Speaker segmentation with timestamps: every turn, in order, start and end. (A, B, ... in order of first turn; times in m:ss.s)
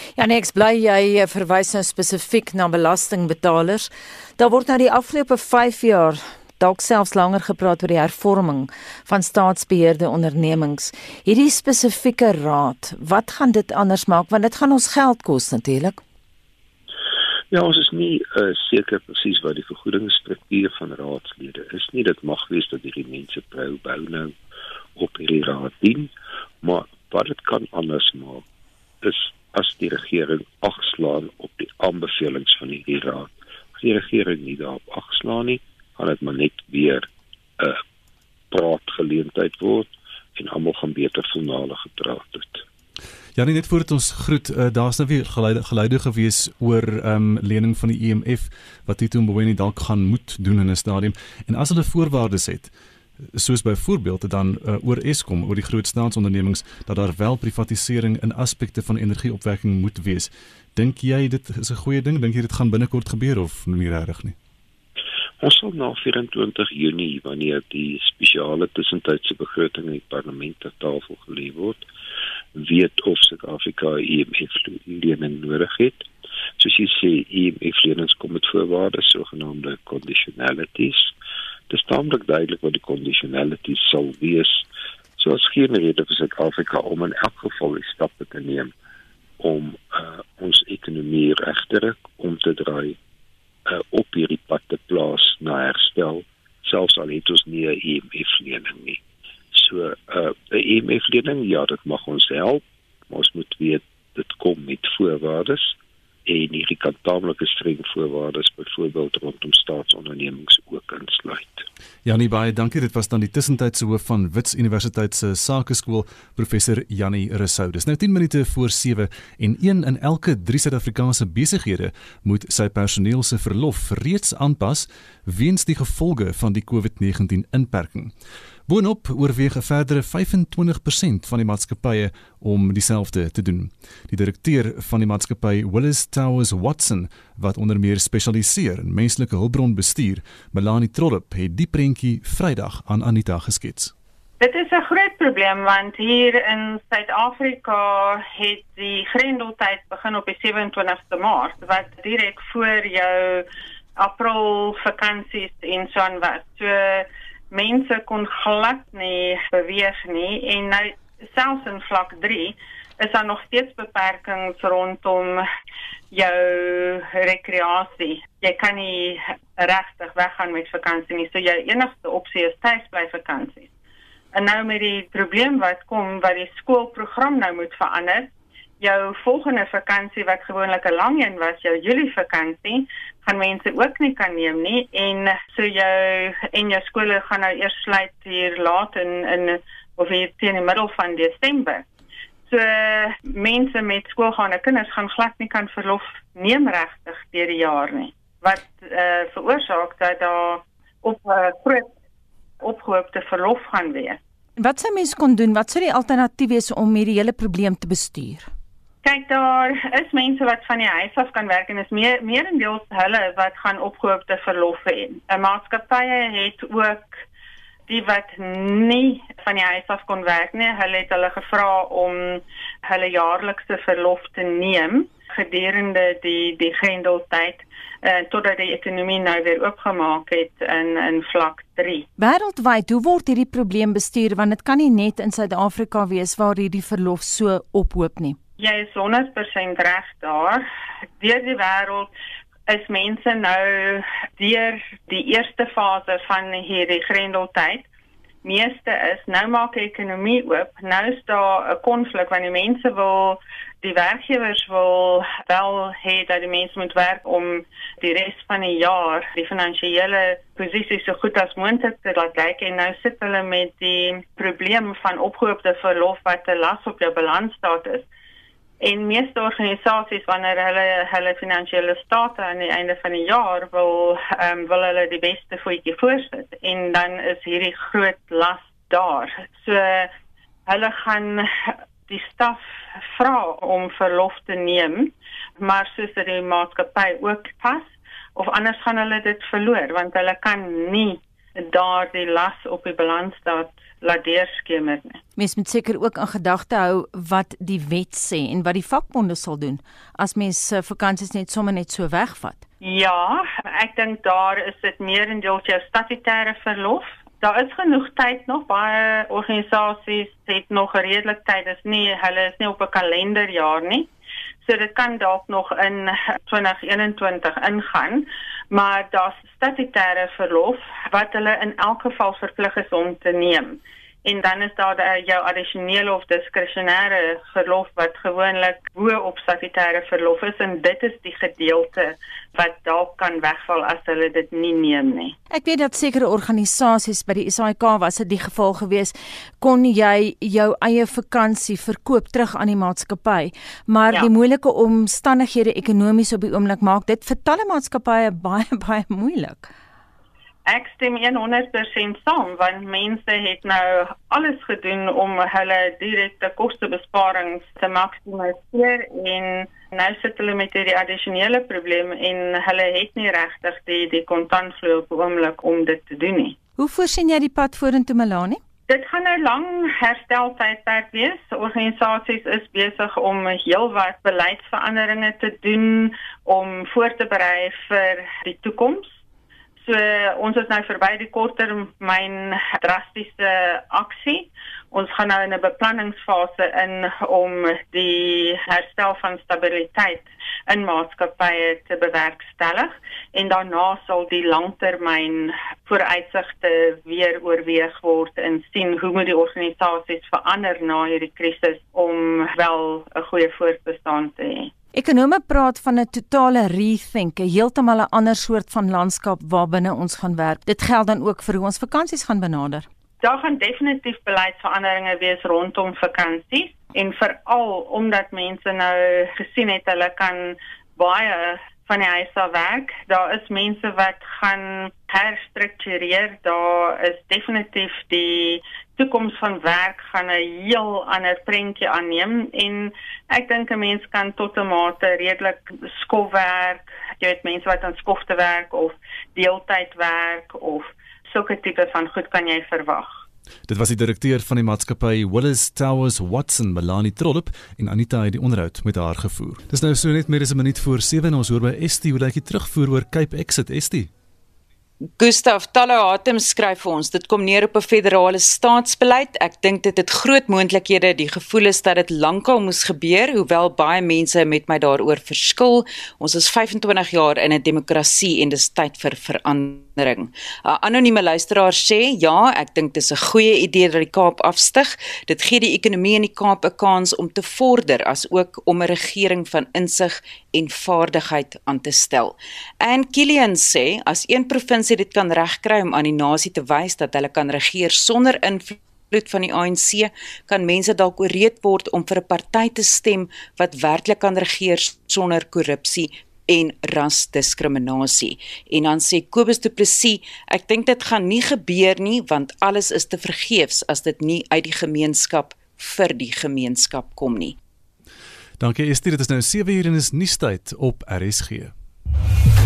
0:00.2-0:16.0 A
0:17.5-0:24.3 B
0:25.0-0:28.4 B
0:29.0-0:37.1 B
0:38.5-0:42.6 B
0:43.4-0:52.7 C
0:53.3-1:04.3 C
1:05.4-1:11.8 B
1:12.6-1:16.1 B
1:16.6-1:21.1 B
1:21.7-1:24.6 B
1:25.2-1:28.7 B
1:29.4-1:33.0 B
1:33.7-1:39.0 B
1:39.5-1:51.7 B
1:52.0-2:08.1 C
2:08.7-2:23.9 C
2:24.4-2:33.4 D
2:34.0-2:45.4 D
2:46.1-2:53.7 D
2:54.3-3:11.8 D
3:12.5-3:21.9 D
3:22.6-3:24.2 D
3:24.6-3:28.5 A
3:29.0-3:37.2 D
3:37.9-3:52.0 D
3:52.2-3:58.4 A
3:58.6-4:00.6 D
4:01.2-4:02.1 D
4:02.7-4:07.8 D
4:08.4-4:28.1 D
4:28.8-4:40.1 D
4:40.7-4:55.2 D
4:55.4-5:02.6 A
5:02.8-5:14.1 D
5:14.6-5:35.3 D
5:35.5-5:49.7 A
5:50.7-6:06.6 D
6:06.8-6:08.6 A
6:08.9-6:19.1 D
6:19.8-6:44.7 D
6:44.9-6:52.8 A
6:53.2-7:23.2 D
7:23.7-7:34.1 C
7:35.2-8:27.6 E
8:28.6-8:31.7 C